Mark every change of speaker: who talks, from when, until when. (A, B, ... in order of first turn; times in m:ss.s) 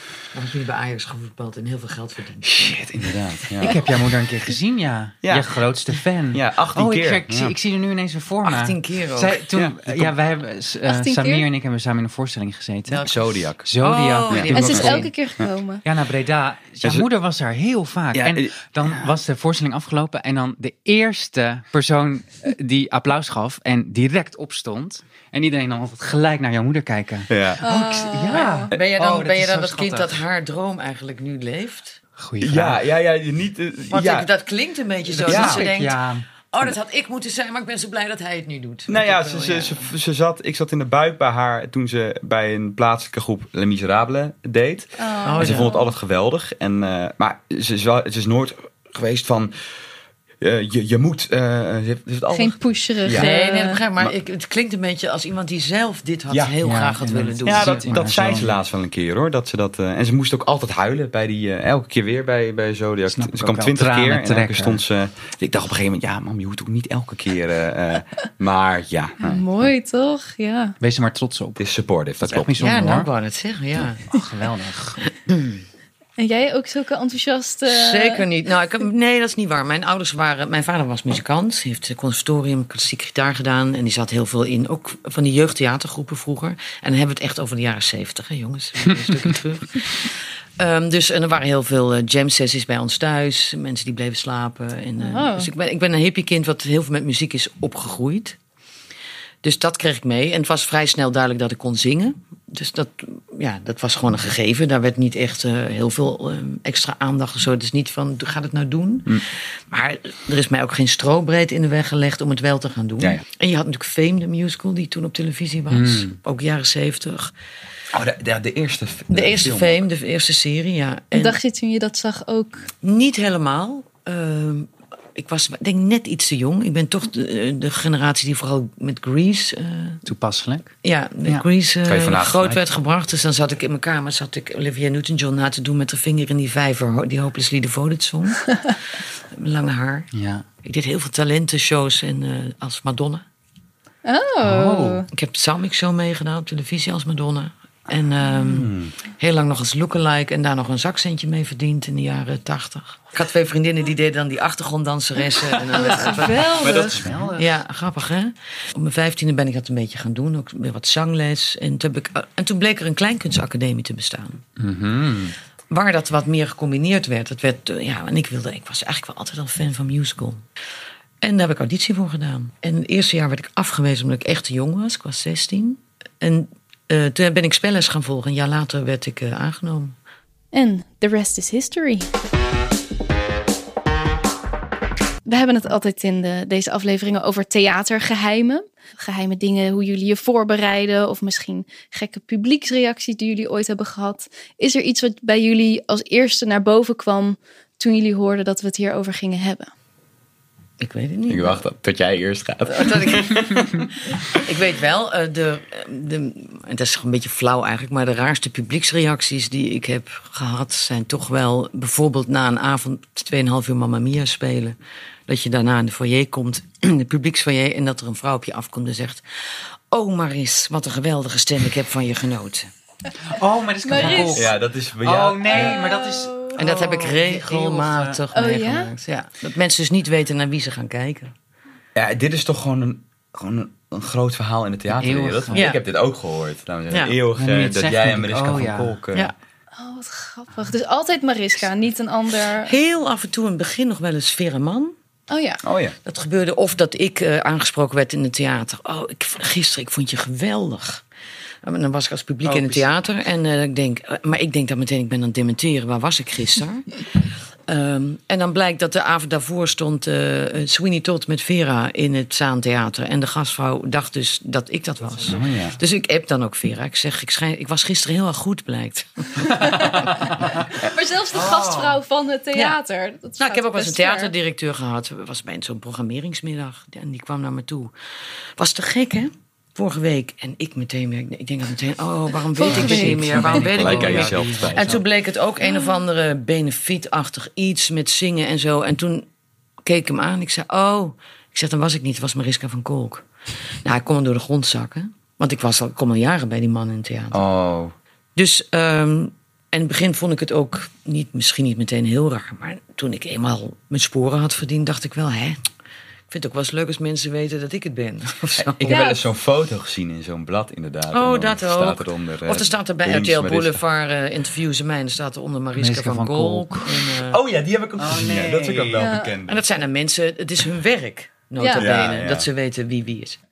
0:00.3-0:02.8 A
0:02.4-0:03.8 B
0:03.6-0:13.0 C
0:05.2-0:05.5 B
0:06.3-0:07.5 B
0:08.4-0:09.4 A
0:09.5-0:10.1 B
0:10.8-0:11.4 D
0:12.9-0:15.1 A
0:13.0-0:13.6 B
0:13.6-0:15.1 C
0:14.5-0:15.8 D
0:15.8-0:30.2 C
0:18.1-0:19.0 B
0:27.3-0:27.6 B
0:27.6-0:28.8 D
0:27.7-0:32.0 A
0:32.2-0:32.8 C
0:32.4-0:34.3 B
0:33.9-0:36.0 A
0:35.1-0:36.2 C
0:35.3-0:35.7 B
0:36.5-0:39.9 A
0:38.9-0:49.5 B
0:45.0-0:45.9 D
0:45.2-0:45.7 A
0:50.4-0:53.3 B
0:52.3-0:53.8 D
0:53.1-0:58.1 A
0:56.3-0:56.5 B
0:56.6-0:58.5 C
0:57.4-1:09.5 B
1:03.1-1:04.8 C
1:09.2-1:10.8 D
1:10.8-1:11.6 C
1:11.6-1:12.5 B
1:12.2-1:13.1 C
1:12.6-1:14.0 A
1:14.0-1:15.0 C
1:15.3-1:15.6 A
1:16.2-1:18.2 D
1:17.7-1:38.4 A
1:35.0-1:35.5 D
1:39.4-1:57.3 A
1:53.0-1:53.2 B
1:55.7-1:56.2 C
1:57.9-1:59.8 B
1:59.1-2:01.4 A
2:01.1-2:02.7 D
2:02.8-2:10.0 A
2:10.0-2:10.7 C
2:10.8-2:20.1 A
2:11.8-2:12.6 B
2:20.1-2:20.4 C
2:20.6-2:23.2 A
2:24.0-2:25.1 D
2:24.4-2:25.0 C
2:25.1-2:36.7 A
2:28.4-2:28.9 B
2:35.7-2:37.0 D
2:35.7-2:37.5 C
2:36.5-2:37.3 B
2:37.3-2:44.4 A
2:44.6-2:45.3 C
2:45.7-2:50.4 A
2:51.2-2:59.9 A
3:00.5-3:02.1 D
3:05.2-3:19.7 D
3:20.8-3:21.6 A
3:21.3-3:24.4 B
3:22.7-3:39.2 A
3:39.9-3:42.7 A
3:43.2-3:48.2 C
3:43.8-3:44.5 D
3:44.3-3:45.8 B
3:45.5-3:46.6 D
3:46.6-3:51.3 A
3:48.3-3:48.9 D
3:51.9-3:59.3 B
3:54.9-3:55.7 C
3:55.5-3:55.8 A
3:57.3-3:59.0 C
3:59.8-4:02.7 D
4:02.6-4:04.9 A
4:05.3-4:05.6 D
4:05.6-4:06.0 B
4:06.0-4:11.0 A
4:11.6-4:17.0 A
4:12.4-4:12.9 B
4:17.7-4:30.3 A
4:25.2-4:25.8 B
4:29.5-4:34.3 D
4:31.3-4:32.0 C
4:33.4-4:37.9 A
4:38.6-4:49.3 A
4:42.6-4:43.2 D
4:42.6-4:45.0 C
4:43.2-4:45.0 B
4:49.8-4:53.2 A
4:53.8-4:57.4 A
4:57.3-4:57.9 B
4:58.4-5:05.6 A
5:06.3-5:09.1 A
5:08.6-5:13.8 B
5:08.9-5:09.2 D
5:11.1-5:17.4 A
5:15.8-5:17.1 C
5:17.3-5:19.6 B
5:18.0-5:19.1 C
5:19.0-5:19.3 D
5:19.4-5:23.4 A
5:21.6-5:21.9 D
5:21.7-5:22.5 B